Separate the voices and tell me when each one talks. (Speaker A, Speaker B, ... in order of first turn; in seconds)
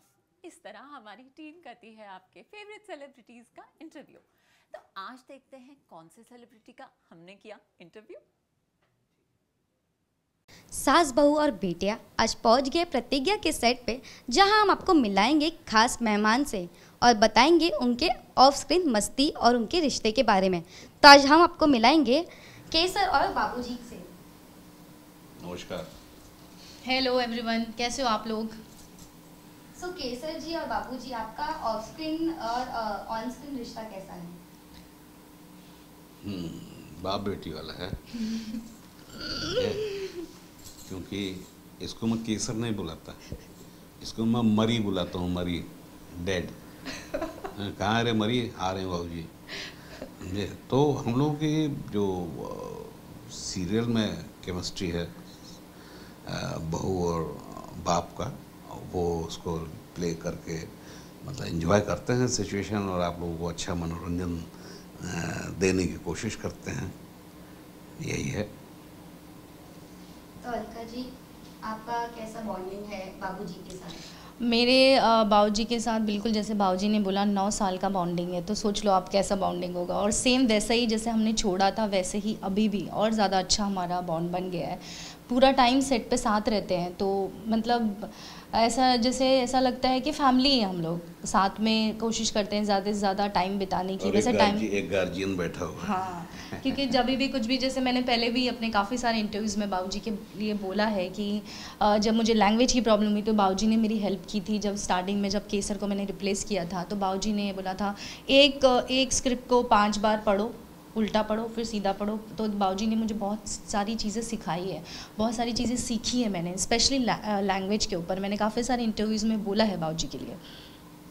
Speaker A: 0.4-8.2
Speaker B: 10.7-24.1, 29.8-34.4, 70.4-71.1, 71.6-74.0
Speaker C: 25.4-25.9, 36.2-38.0, 39.4-39.9, 40.9-43.3, 44.0-46.6, 47.5-49.3, 50.2-55.2, 56.2-67.0, 68.0-68.5, 94.0-96.9
Speaker D: 26.8-28.6, 74.4-94.7, 95.8-120.4